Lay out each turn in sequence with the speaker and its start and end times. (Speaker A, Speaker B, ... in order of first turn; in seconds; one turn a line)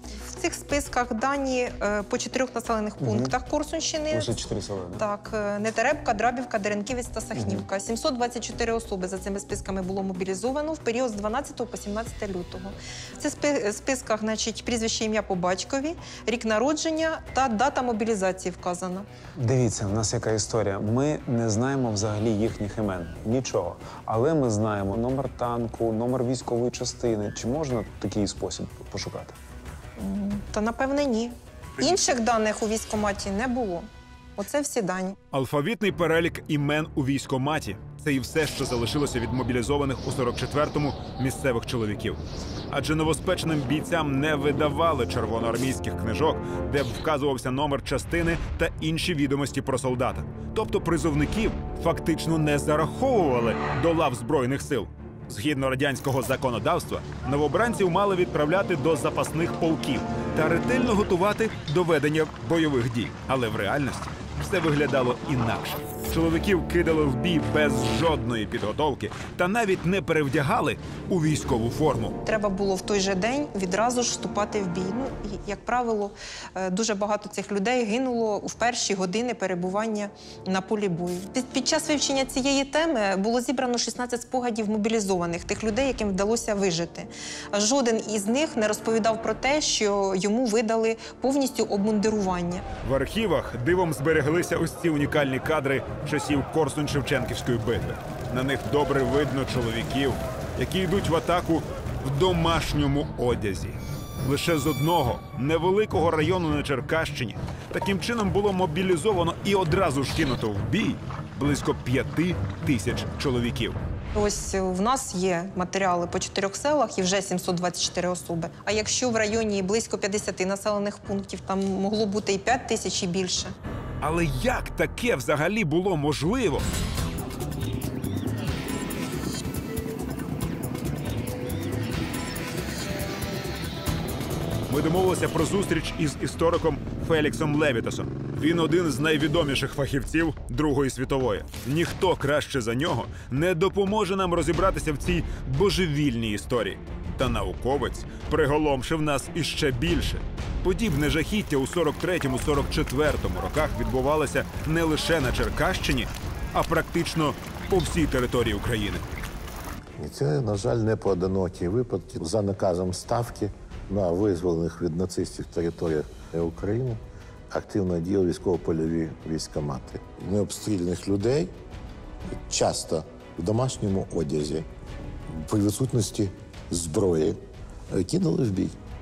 Speaker A: 0.3-4.4
Speaker B: 3.0-3.3
Speaker B: 4.1-5.1
Speaker A: 5.0-19.1
Speaker B: 7.3-7.6
Speaker B: 19.4-29.4
Speaker A: 30.0-35.2
Speaker C: 35.3-72.2
Speaker A: 72.2-92.6
Speaker C: 92.8-113.8
Speaker A: 114.1-123.5
Speaker C: 124.0-126.7
Speaker C: 134.7-159.1
Speaker D: 160.0-167.0
Speaker D: 167.5-171.5
Speaker D: 172.4-174.7
Speaker D: 175.3-177.4
Speaker D: 177.9-178.8